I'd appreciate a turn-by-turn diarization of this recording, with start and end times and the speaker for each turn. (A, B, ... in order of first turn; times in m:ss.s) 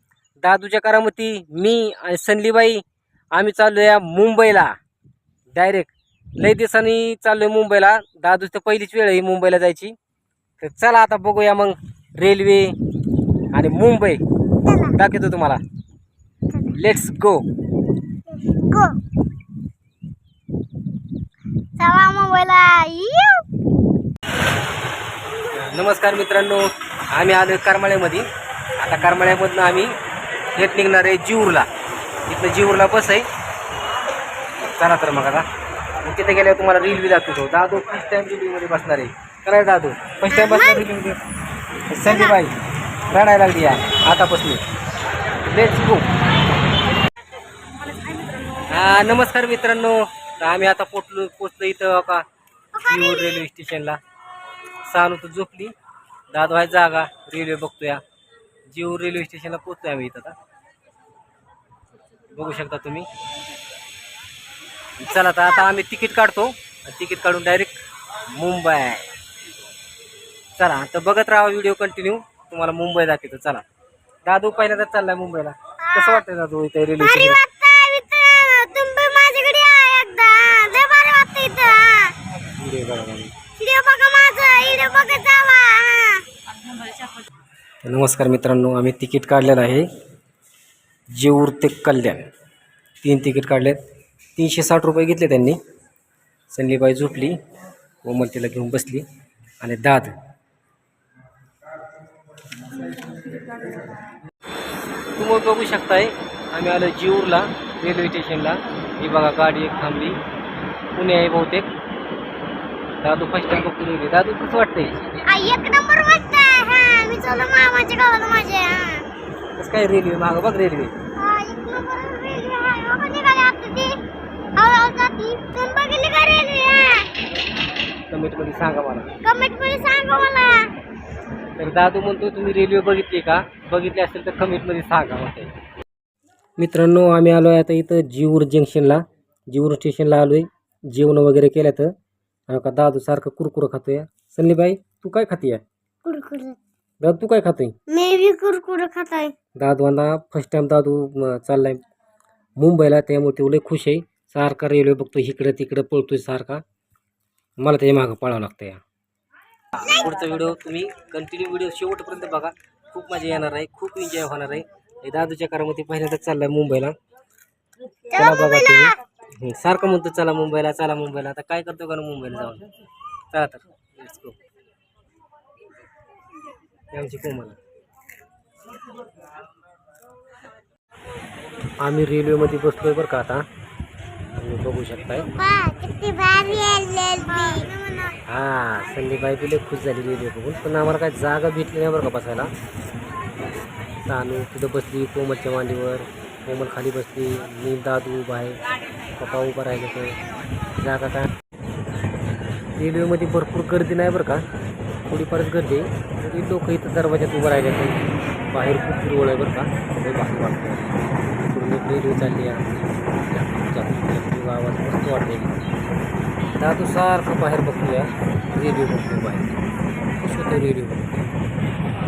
0:00.4-0:02.8 A
0:03.3-0:04.7 A
0:05.5-0:10.0 A
0:10.6-0:12.7 A
0:13.5-0:14.2 A
0:14.6-0:14.9 B
0:14.9-0:15.6 A
0:16.5-0:16.8 B
0:16.7-0:17.4 A
0:18.3-0:19.0 B
0:21.8-0:23.4 B
0:25.5-0:28.2 A
0:28.8-0:29.9 A
0:30.6-0:31.6 A
0:32.3-0:33.2 A
0:34.7-0:35.4 A
0:36.0-0:41.2 A
0:40.3-0:40.9 B
0:41.9-0:42.5 A
0:42.0-0:42.4 B
0:43.1-0:44.6 A
0:45.4-0:46.1 A
0:48.7-0:52.2 A
0:52.7-0:53.3 B
0:52.8-0:54.0 A
0:54.9-0:55.7 A
0:56.3-0:58.0 A
0:58.7-1:00.3 A
1:02.3-1:03.1 A
1:05.0-1:07.8 A
1:05.3-1:05.7 B
1:08.3-1:09.0 A
1:10.6-1:13.6 A
1:14.2-1:17.4 A
1:15.8-1:16.2 B
1:17.0-1:22.1 B
1:22.6-1:23.3 A
1:23.6-1:26.2 B
1:27.8-1:29.8 A
1:31.1-1:32.2 A
1:33.0-1:33.8 A
1:34.4-1:35.6 A
1:36.5-1:37.3 A
1:38.0-1:39.0 A
1:39.6-1:40.1 A
1:45.2-1:50.2 A
1:50.9-1:51.7 A
1:53.0-1:55.2 A
1:55.2-1:59.0 B
1:59.6-2:00.9 A
2:01.2-2:04.0 B
2:04.6-2:07.1 B
2:08.1-2:09.1 A
2:09.2-2:10.7 B
2:11.6-2:15.5 A
2:16.6-2:21.9 A
2:22.5-2:25.6 A
2:26.0-2:26.6 B
2:27.0-2:27.7 A
2:27.9-2:29.3 B
2:29.6-2:31.8 A
2:32.6-2:36.6 A
2:37.6-2:38.8 A
2:39.8-2:46.9 A
2:48.1-2:48.9 B
2:48.1-2:52.6 A
2:53.3-2:54.3 A
2:56.9-2:57.6 A
3:01.8-3:03.4 A
3:04.4-3:05.3 A
3:05.4-3:08.1 B
3:08.3-3:12.5 A
3:14.0-3:18.6 A
3:19.2-3:20.2 A
3:20.8-3:21.3 A
3:22.8-3:24.4 A
3:25.1-3:28.0 A
3:28.5-3:30.9 A
3:31.4-3:32.6 A
3:33.3-3:35.5 A
3:36.6-3:39.5 A
3:40.2-3:41.2 A